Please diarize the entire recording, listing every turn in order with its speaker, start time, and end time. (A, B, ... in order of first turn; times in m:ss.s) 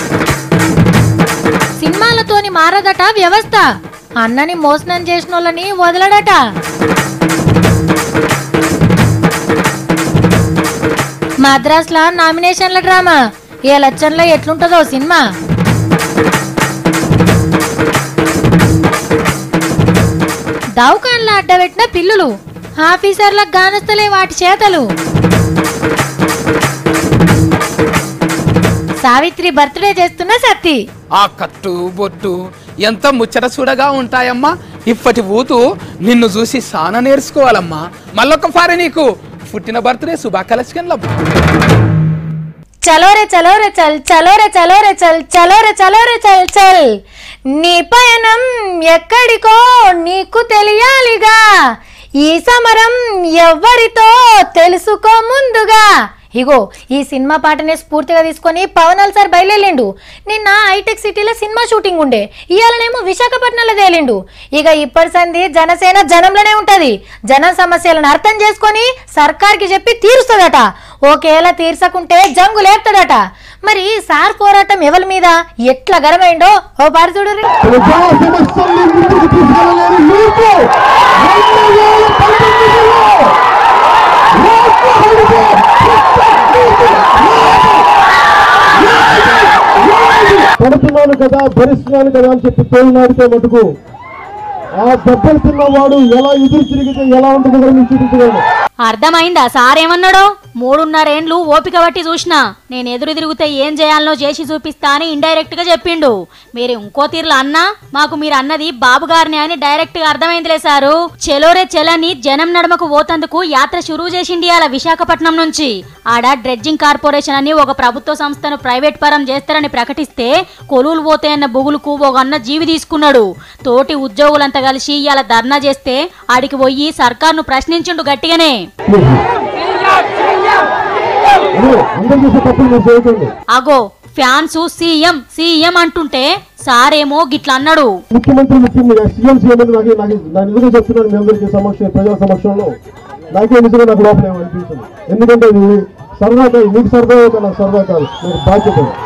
0:01.8-0:03.6 A
0:04.2-0:06.4 A
0:11.4-0:13.2 A
0:13.7-0:15.2 A
0:20.8-0:22.3 A
0:22.8-0:24.9 A
0:29.0-0:30.8 A
0:31.2-0:41.2 B
0:42.9-0:47.0 A
0:47.6-0:51.4 A
0:52.2-1:17.5 A
1:17.6-1:23.3 C
1:24.3-1:27.8 C
1:28.8-1:33.7 C
1:34.8-1:38.4 C
1:38.8-2:08.6 D
2:08.9-2:09.2 C
2:11.5-2:13.3 C
2:13.5-2:17.9 D
2:18.1-2:22.8 C
2:23.3-2:29.0 C